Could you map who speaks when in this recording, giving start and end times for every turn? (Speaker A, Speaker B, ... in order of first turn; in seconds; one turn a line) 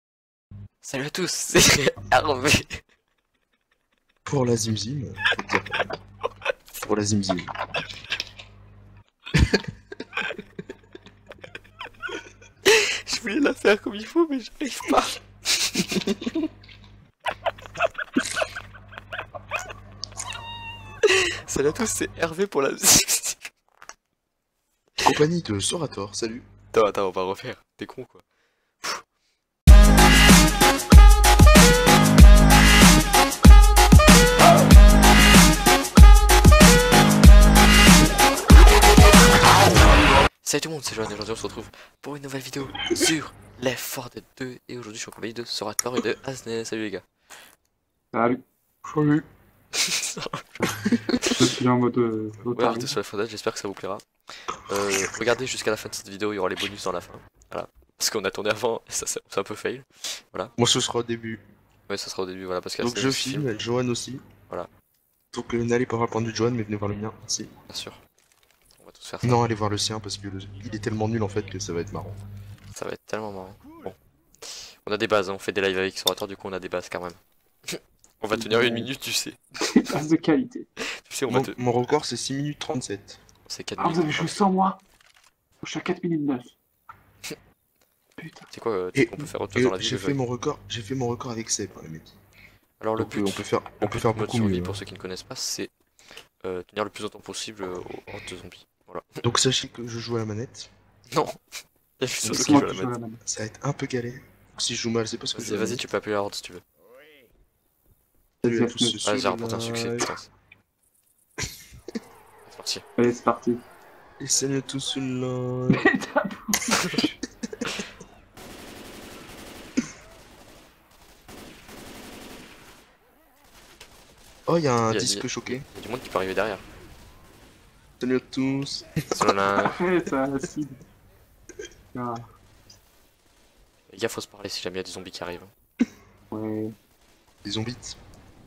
Speaker A: 0.8-2.8
Speaker B: 4.3-5.8
Speaker B: 6.8-7.5
Speaker A: 12.7-16.1
Speaker A: 21.4-23.5
Speaker B: 25.0-26.4
Speaker A: 26.7-28.2
Speaker A: 40.4-47.0
Speaker C: 48.1-48.4
Speaker B: 48.8-49.3
Speaker A: 49.8-51.5
Speaker C: 51.4-53.0
Speaker A: 52.5-60.5
Speaker B: 60.6-61.4
Speaker A: 61.9-63.5
Speaker B: 62.8-64.2
Speaker B: 65.3-67.5
Speaker A: 67.7-68.0
Speaker A: 68.8-69.4
Speaker B: 69.2-72.2
Speaker A: 72.7-79.4
Speaker C: 78.3-78.9
Speaker C: 79.7-80.7
Speaker A: 81.1-81.6
Speaker B: 81.3-83.2
Speaker A: 83.5-84.4
Speaker C: 83.8-84.8
Speaker C: 85.6-86.5
Speaker C: 88.2-88.5
Speaker A: 88.5-90.2
Speaker B: 89.0-92.1
Speaker A: 92.8-95.7
Speaker B: 93.0-94.8
Speaker A: 96.4-99.1
Speaker B: 99.2-100.7
Speaker A: 101.1-101.4
Speaker A: 102.0-102.9
Speaker C: 102.2-103.2
Speaker B: 103.2-105.8
Speaker A: 105.3-106.6
Speaker B: 108.4-110.1
Speaker C: 108.4-109.0
Speaker A: 109.0-110.3
Speaker A: 112.5-112.8
Speaker C: 113.0-113.6
Speaker B: 114.2-115.9
Speaker C: 115.7-117.2
Speaker B: 124.5-125.6
Speaker A: 124.9-126.7
Speaker B: 128.0-129.7
Speaker A: 129.1-129.8
Speaker C: 129.6-130.8
Speaker C: 131.9-132.2
Speaker A: 133.9-135.5
Speaker C: 136.3-136.7
Speaker B: 137.4-138.0